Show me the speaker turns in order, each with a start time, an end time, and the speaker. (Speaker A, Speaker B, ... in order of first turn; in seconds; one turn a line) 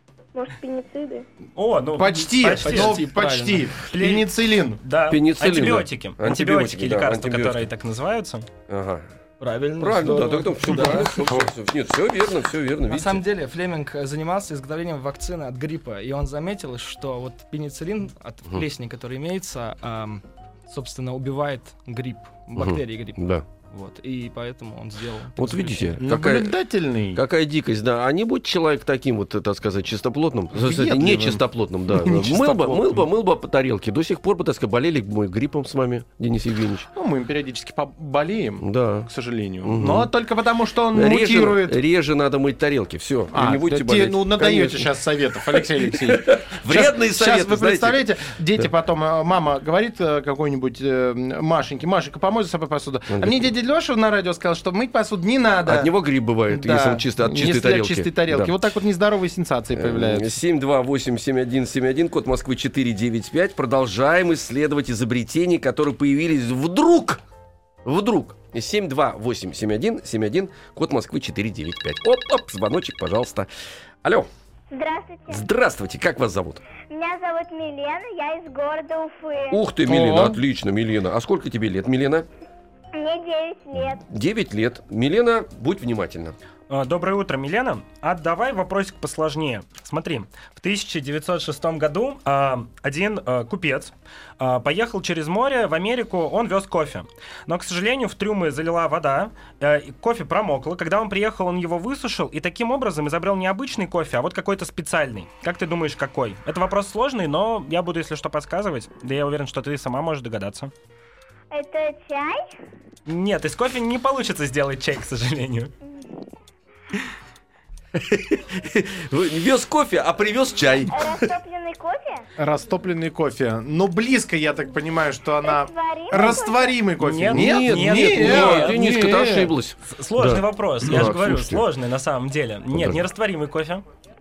Speaker A: 0.3-1.2
Speaker B: 1.6-3.0
Speaker C: 1.9-4.8
Speaker D: 2.6-3.7
Speaker B: 3.9-4.3
Speaker B: 4.8-8.5
Speaker E: 5.1-7.7
Speaker E: 8.7-9.1
Speaker D: 9.4-11.2
Speaker E: 9.8-13.2
Speaker D: 12.9-26.0
Speaker E: 22.6-23.4
Speaker E: 25.4-26.6
Speaker C: 26.0-27.2
Speaker E: 27.1-36.9
Speaker C: 30.5-33.0
Speaker C: 36.9-41.8
Speaker E: 38.6-39.1
Speaker E: 39.6-40.1
Speaker E: 40.9-48.0
Speaker C: 43.3-55.9
Speaker E: 53.1-53.5
Speaker E: 55.6-58.5
Speaker C: 56.5-60.4
Speaker E: 59.7-67.2
Speaker E: 67.8-73.5
Speaker E: 74.0-74.3
Speaker A: 74.7-75.4
Speaker E: 75.3-76.6
Speaker A: 76.8-79.6
Speaker E: 79.5-82.3
Speaker C: 79.8-80.4
Speaker A: 82.9-84.0
Speaker E: 83.7-86.3
Speaker B: 86.7-110.7
Speaker A: 111.5-112.5
Speaker B: 113.0-115.7
Speaker A: 115.8-116.2
Speaker E: 117.9-121.3
Speaker A: 120.9-122.3
Speaker C: 122.4-129.5
Speaker A: 125.4-126.8
Speaker B: 127.0-129.0
Speaker E: 127.3-131.7
Speaker B: 129.9-133.8
Speaker E: 132.7-133.0